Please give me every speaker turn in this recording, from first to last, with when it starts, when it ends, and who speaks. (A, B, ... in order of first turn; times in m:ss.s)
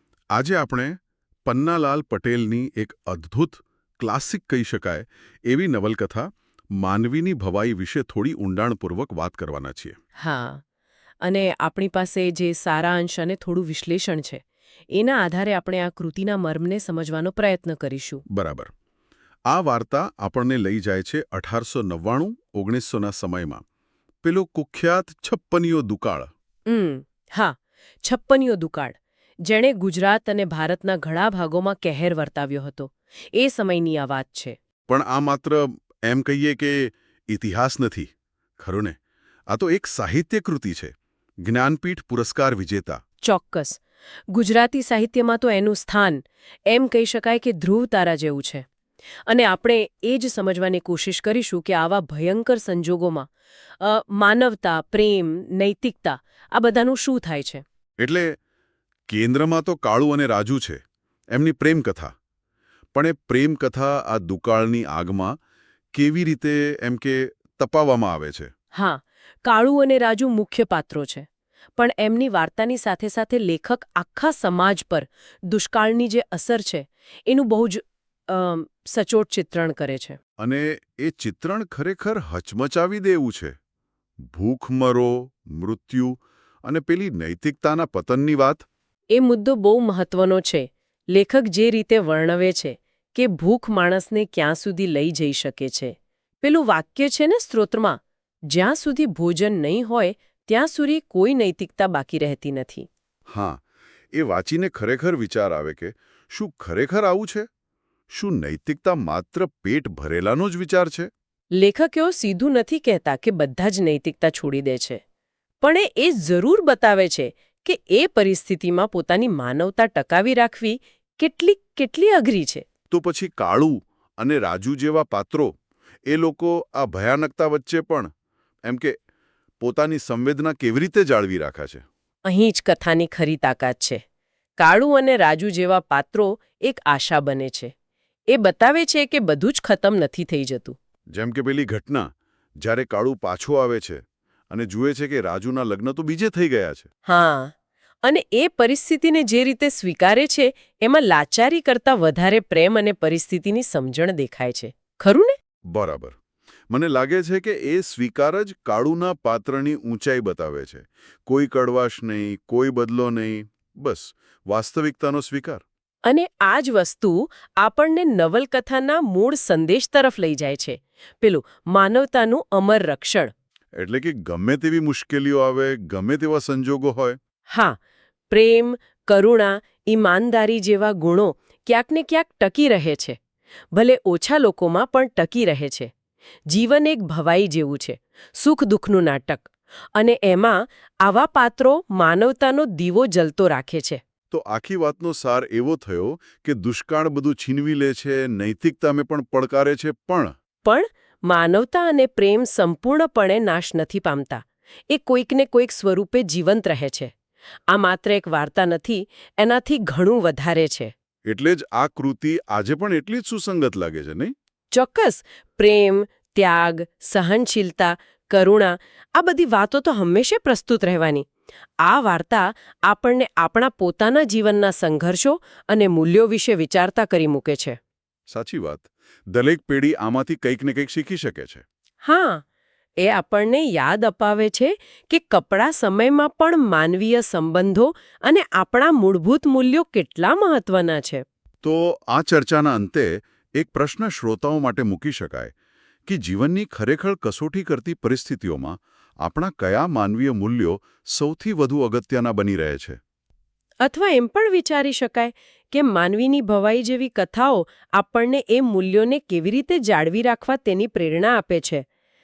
0:00.3-0:10.0 A
0:10.2-0:10.6 B
0:11.2-0:18.2 B
0:18.3-0:18.7 A
0:19.5-0:23.6 A
0:24.2-0:26.3 A
0:26.7-0:34.6 B
0:34.9-0:39.0 A
0:39.5-0:43.0 A
0:43.2-0:43.8 B
0:44.3-0:48.6 B
0:49.3-0:57.6 B
0:58.0-0:58.4 A
0:59.1-1:00.8 A
1:01.3-1:02.1 A
1:02.9-1:05.4 A
1:05.9-1:08.5 A
1:08.7-1:20.2 B
1:20.4-1:23.6 A
1:24.2-1:28.6 A
1:29.1-1:42.9 B
1:43.3-1:43.6 A
1:44.1-1:47.5 A
1:48.1-1:51.1 A
1:51.5-1:55.0 B
1:55.6-2:02.6 B
2:02.9-2:05.5 A
2:06.0-2:08.1 A
2:08.6-2:09.0 A
2:09.6-2:11.8 A
2:12.2-2:14.0 B
2:14.6-2:17.7 B
2:18.3-2:20.8 B
2:21.1-2:22.1 A
2:22.6-2:26.9 A
2:27.0-2:35.3 B
2:35.7-2:36.2 A
2:36.7-2:45.6 A
2:46.0-2:53.3 B
2:53.8-2:57.2 A
2:57.5-2:57.8 B
2:58.3-3:03.2 B
3:03.7-3:05.9 B
3:06.5-3:14.0 B
3:14.3-3:20.3 A
3:20.6-3:27.1 B
3:27.7-3:30.9 B
3:31.2-3:34.3 A
3:34.7-3:41.3 B
3:41.8-3:47.8 B
3:48.3-3:51.6 A
3:52.0-3:52.4 B
3:53.0-4:01.2 B
4:01.6-4:05.5 A
4:06.0-4:13.0 A
4:13.8-4:21.8 B